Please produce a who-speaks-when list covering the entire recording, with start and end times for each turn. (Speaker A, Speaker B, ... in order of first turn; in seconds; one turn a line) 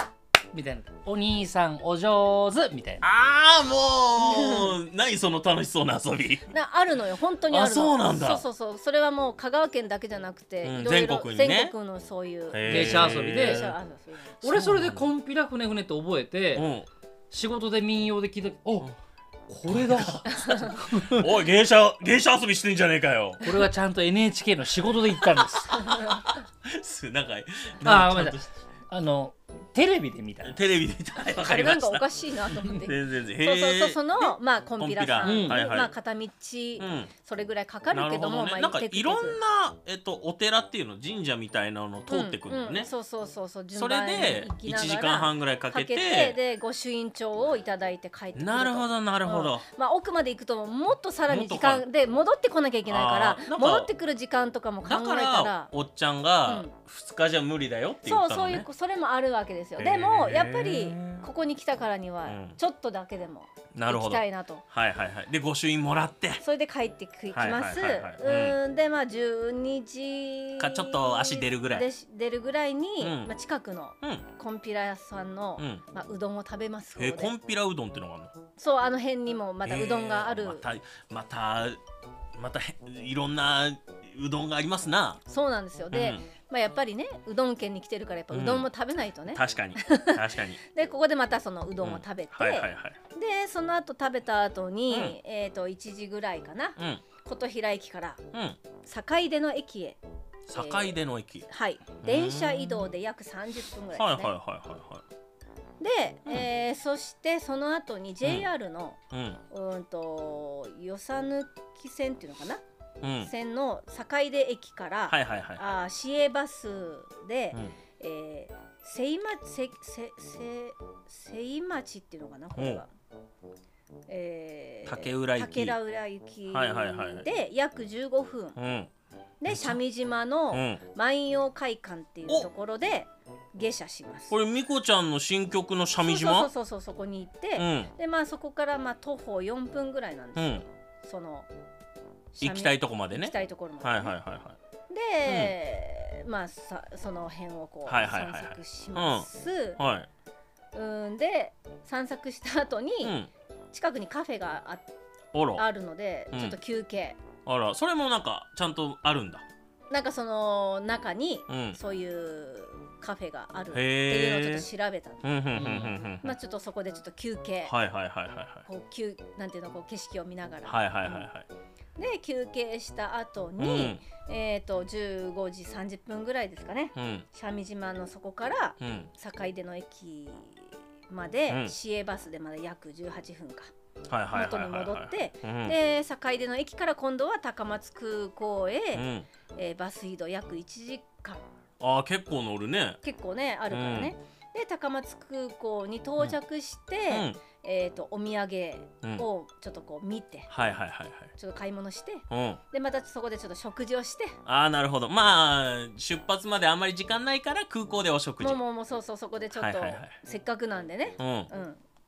Speaker A: 0.5-3.0
Speaker B: 3.0-6.5
Speaker C: 4.2-4.8
Speaker C: 6.5-14.4
Speaker B: 7.5-8.4
Speaker B: 10.6-11.8
Speaker B: 12.5-13.8
Speaker A: 12.7-13.7
Speaker A: 14.4-16.7
Speaker B: 14.4-15.1
Speaker B: 16.5-16.9
Speaker A: 17.3-18.9
Speaker A: 19.5-21.3
Speaker B: 19.7-23.4
Speaker C: 20.3-20.6
Speaker A: 23.4-25.8
Speaker B: 25.6-28.5
Speaker A: 27.8-30.6
Speaker B: 30.4-35.9
Speaker C: 31.4-39.4
Speaker A: 35.2-35.6
Speaker B: 36.8-37.1
Speaker B: 37.9-42.9
Speaker C: 42.1-55.7
Speaker B: 43.7-46.4
Speaker B: 48.4-49.6
Speaker B: 51.3-51.9
Speaker B: 52.9-53.9
Speaker B: 54.9-58.7
Speaker C: 56.5-56.7
Speaker C: 58.0-64.6
Speaker B: 59.8-61.3
Speaker B: 62.2-62.6
Speaker B: 63.7-66.4
Speaker C: 66.4-77.3
Speaker B: 67.3-68.6
Speaker B: 70.6-71.9
Speaker B: 73.0-73.3
Speaker B: 75.6-75.8
Speaker B: 77.0-78.3
Speaker C: 78.6-80.7
Speaker B: 79.6-81.8
Speaker B: 82.4-85.2
Speaker C: 85.3-98.2
Speaker B: 85.9-86.2
Speaker B: 88.3-88.7
Speaker B: 89.3-90.6
Speaker B: 91.8-93.0
Speaker B: 94.9-95.2
Speaker B: 96.8-97.0
Speaker B: 98.3-98.6
Speaker C: 98.8-100.0
Speaker B: 100.5-101.5
Speaker C: 100.5-104.3
Speaker B: 102.0-102.9
Speaker B: 103.9-105.0
Speaker C: 105.8-109.0
Speaker B: 108.2-108.5
Speaker B: 109.1-109.4
Speaker C: 109.5-112.6
Speaker B: 113.0-113.3
Speaker C: 113.2-122.9
Speaker B: 115.1-115.7
Speaker B: 122.5-122.8
Speaker C: 124.1-128.6
Speaker B: 124.8-125.8
Speaker B: 126.5-127.3
Speaker B: 128.6-128.9
Speaker C: 129.4-134.3
Speaker B: 129.5-129.8
Speaker B: 130.5-130.8
Speaker B: 134.3-136.5
Speaker C: 136.0-141.5
Speaker B: 137.6-137.9
Speaker B: 140.4-140.7
Speaker C: 142.3-144.2
Speaker B: 142.4-144.6
Speaker C: 144.9-149.8
Speaker B: 145.3-145.5
Speaker B: 147.9-150.1
Speaker C: 150.7-153.2
Speaker B: 153.0-153.3
Speaker C: 153.7-154.9
Speaker B: 155.3-155.7
Speaker C: 155.6-157.2
Speaker B: 156.3-156.6
Speaker B: 157.5-159.4
Speaker C: 159.9-165.3
Speaker B: 161.5-161.8
Speaker B: 163.7-164.7
Speaker B: 165.2-166.4
Speaker A: 165.5-166.1
Speaker C: 166.2-167.8
Speaker B: 167.7-168.7
Speaker C: 168.7-171.3
Speaker B: 170.7-171.5
Speaker C: 172.0-183.7
Speaker B: 173.6-174.0
Speaker B: 177.0-177.3
Speaker B: 178.8-179.1
Speaker B: 181.5-181.7
Speaker B: 184.1-185.8
Speaker C: 184.3-191.4
Speaker B: 188.9-189.3
Speaker B: 191.8-193.0
Speaker C: 193.0-200.5
Speaker B: 193.7-194.1
Speaker B: 197.1-197.4
Speaker B: 200.5-201.3
Speaker C: 201.3-204.4
Speaker B: 202.3-202.6
Speaker B: 204.4-208.6
Speaker C: 208.4-211.8
Speaker B: 209.5-210.2
Speaker B: 211.2-211.5